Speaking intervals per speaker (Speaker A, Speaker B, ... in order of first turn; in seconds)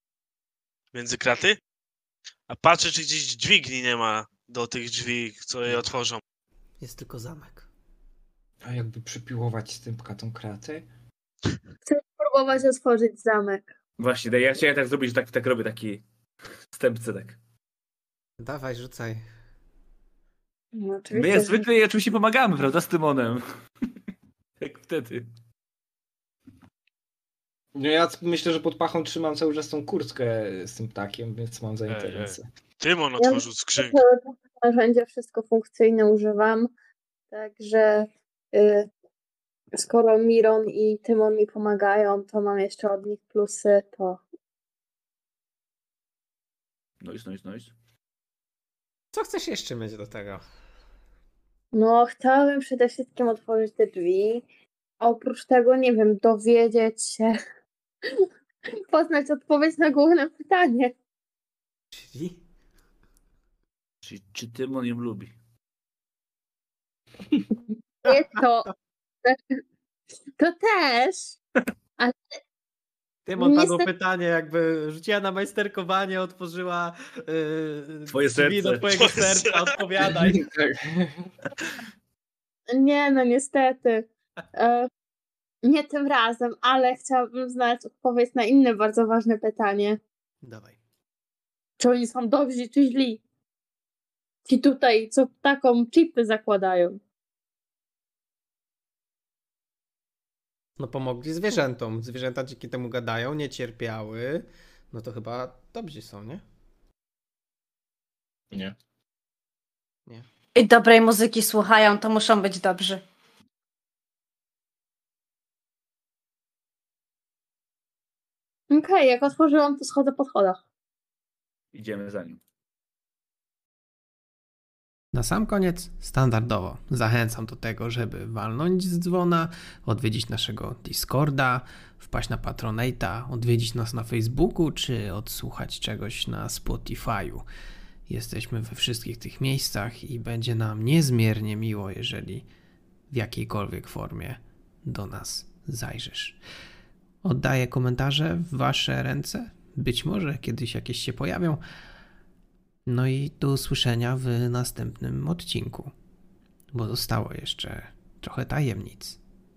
Speaker A: 0.9-1.6, 2.5-6.2, 31.9-34.0, 78.9-79.8
Speaker B: 6.8-7.7, 18.4-19.2, 49.1-50.4, 61.9-62.4, 73.2-80.5, 90.4-90.8, 100.8-106.4, 125.1-137.5, 138.1-142.5, 143.1-146.4, 147.2-151.6, 152.8-155.9, 156.7-159.2
Speaker C: 8.6-10.8, 27.8-32.5, 80.1-81.3
Speaker D: 11.8-13.7, 20.7-21.6, 33.2-36.7, 37.3-38.9, 39.7-44.2, 51.7-54.5, 55.0-57.4, 58.7-60.9, 68.0-68.7, 69.2-69.6, 70.4-71.3, 73.4-73.9, 82.7-84.9, 85.6-90.0, 91.8-93.2, 94.5-97.0, 118.7-120.6
Speaker E: 14.0-16.0, 16.7-17.4, 21.1-23.4, 24.6-25.3, 47.0-47.7, 64.0-65.3, 78.1-79.0, 121.7-122.4
Speaker F: 110.5-113.0